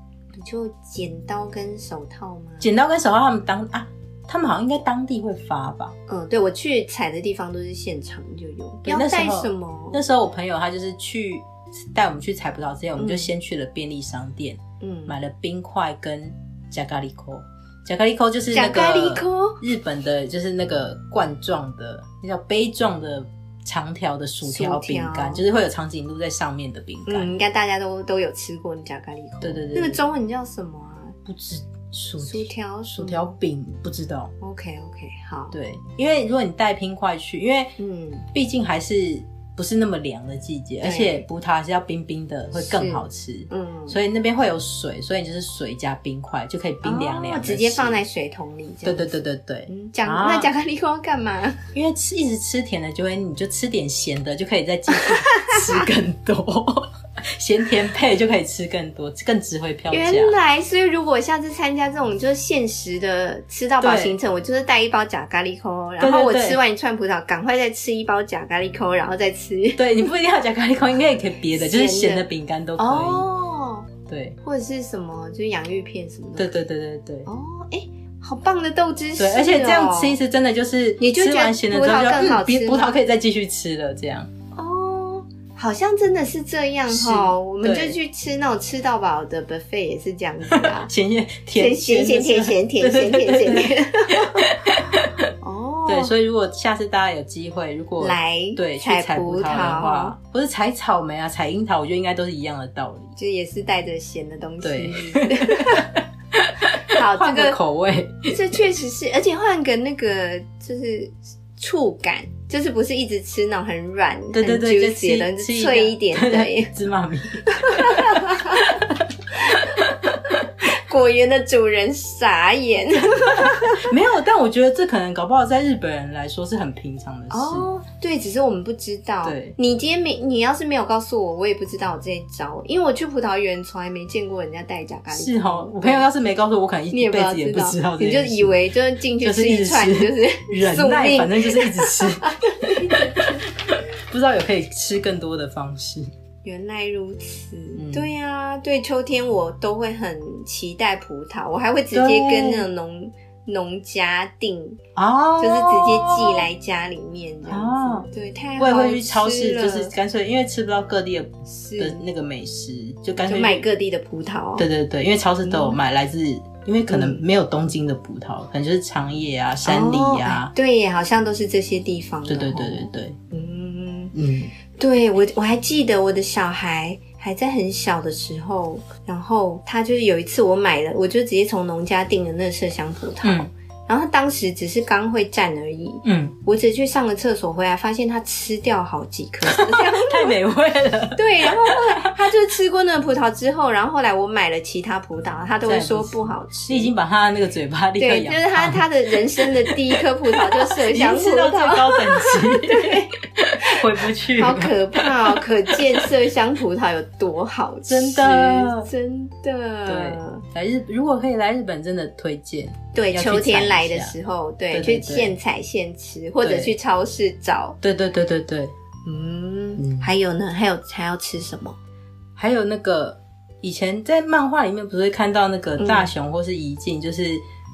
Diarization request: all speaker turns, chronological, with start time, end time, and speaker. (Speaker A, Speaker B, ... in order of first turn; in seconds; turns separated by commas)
Speaker A: 0.3-2.7, Speaker B: 2.6-6.0, Speaker A: 6.1-10.0, Speaker B: 8.8-27.3, Speaker A: 13.0-13.3, Speaker A: 14.8-15.2, Speaker A: 18.5-19.6, Speaker A: 24.4-25.4, Speaker A: 27.1-31.2, Speaker B: 29.4-30.0, Speaker B: 31.3-34.3, Speaker A: 32.2-33.3, Speaker A: 34.4-35.5, Speaker B: 35.5-37.8, Speaker A: 37.8-38.3, Speaker B: 38.3-48.0, Speaker A: 40.8-41.2, Speaker A: 42.5-44.0, Speaker A: 46.8-51.6, Speaker B: 48.8-50.5, Speaker B: 51.7-60.4, Speaker A: 54.9-55.9, Speaker A: 59.9-70.1, Speaker B: 63.8-64.2, Speaker B: 66.0-66.6, Speaker B: 69.8-73.3, Speaker A: 71.5-72.3, Speaker A: 72.8-73.9, Speaker B: 74.1-74.4, Speaker A: 74.4-76.6, Speaker B: 76.4-77.3, Speaker A: 77.3-80.2, Speaker B: 79.2-84.3, Speaker A: 81.0-83.0, Speaker A: 84.5-90.9, Speaker B: 86.9-88.0, Speaker B: 90.5-95.2, Speaker A: 91.5-94.6, Speaker A: 95.4-96.1, Speaker B: 95.9-103.2, Speaker A: 98.0-100.2, Speaker A: 103.2-106.0, Speaker B: 104.6-108.6, Speaker A: 106.9-107.6, Speaker A: 108.3-116.7, Speaker B: 114.3-120.2, Speaker A: 117.5-118.8, Speaker A: 119.4-123.9, Speaker B: 123.4-127.7, Speaker A: 127.3-136.1, Speaker B: 129.2-129.6, Speaker B: 135.1-138.6, Speaker A: 136.9-143.5, Speaker B: 139.2-146.1, Speaker A: 146.4-154.8, Speaker B: 147.8-148.1, Speaker B: 151.9-152.7, Speaker B: 155.0-156.5, Speaker A: 155.4-159.9, Speaker B: 157.5-158.1, Speaker B: 158.6-163.7, Speaker A: 161.5-162.0, Speaker A: 163.2-164.7, Speaker B: 164.6-170.5, Speaker A: 165.4-165.8, Speaker A: 166.9-167.2, Speaker A: 169.6-174.1, Speaker B: 172.3-173.2, Speaker B: 174.1-174.5, Speaker A: 174.8-190.4, Speaker B: 183.2-183.5, Speaker B: 186.0-186.4, Speaker B: 189.4-192.2, Speaker A: 191.2-196.9, Speaker B: 195.7-198.9, Speaker A: 198.0-210.4, Speaker B: 199.4-206.1, Speaker B: 207.9-208.9, Speaker B: 209.9-214.2, Speaker A: 212.9-217.8, Speaker B: 214.7-215.3, Speaker B: 216.4-216.8, Speaker B: 217.8-218.7, Speaker A: 219.1-221.8, Speaker B: 219.8-220.1, Speaker B: 222.4-227.4, Speaker A: 225.8-226.1